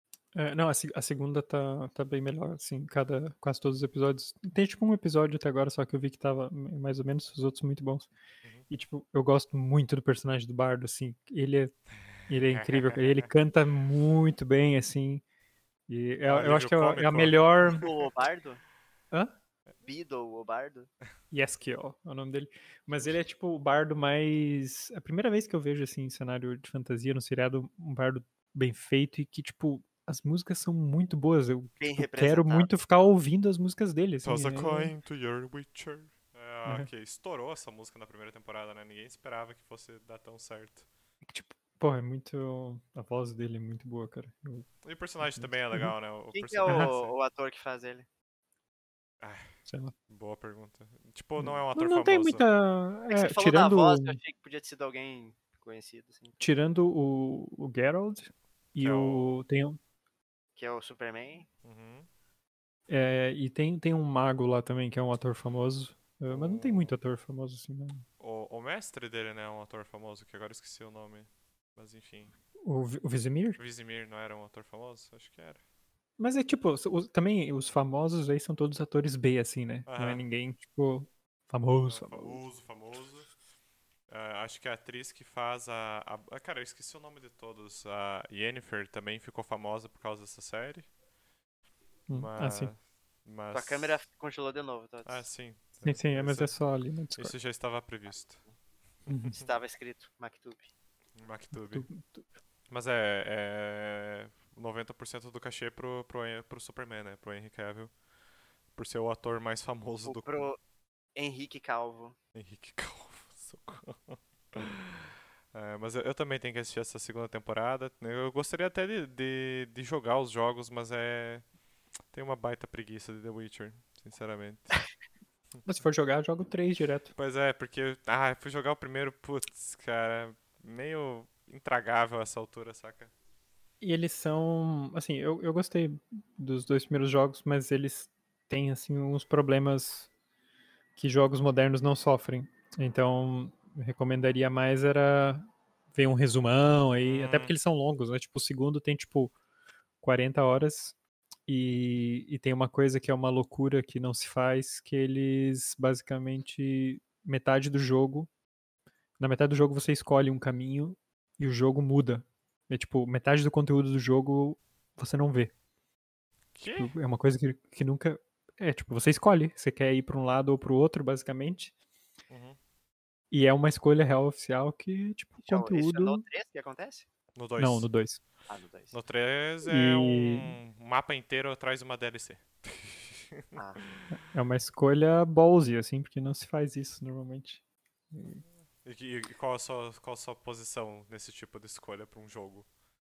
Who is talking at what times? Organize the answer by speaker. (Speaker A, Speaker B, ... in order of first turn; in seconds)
Speaker A: 0.3-8.1, 8.7-11.7, 12.3-15.2, 15.9-17.9, 21.3-34.9, 41.2-44.7, 45.2-45.9, 49.7-49.9, 51.4-54.2, 56.4-59.8, 62.9-68.0, 72.6-73.6, 76.2-82.4, 92.1-92.7, 95.8-97.3, 99.1-99.3, 101.5-102.2, 125.6-127.1, 133.8-140.1, 140.9-149.3, 150.0-150.9, 151.5-158.3, 159.2-165.5, 166.8-171.7, 173.3-176.2, 177.6-178.2, 179.6-180.6, 184.1-187.6, 188.1-188.4
Speaker B: 12.5-13.2, 16.2-18.1, 34.2-40.9, 44.8-47.1, 49.2-49.5, 50.1-52.5, 58.8-59.4, 61.6-62.1, 66.3-66.9, 68.2-72.3, 73.6-75.6, 79.9-80.2, 81.8-83.3, 84.1-90.9, 92.1-94.0, 95.0-96.5, 97.2-98.4, 99.1-99.4, 101.2-101.8, 102.7-107.9, 108.7-110.3, 112.3-121.4, 122.1-124.8, 127.2-133.1, 146.9-147.5, 166.5-166.9, 172.3-172.6, 177.3-177.9, 178.9-183.6, 188.8-192.7
Speaker C: 17.7-18.6, 19.8-20.9, 31.8-32.7, 46.3-48.1, 53.1-56.4, 60.5-61.5, 93.5-95.3, 99.3-100.7, 110.0-110.6, 111.2-112.2, 175.4-177.1, 178.5-178.9, 183.6-183.8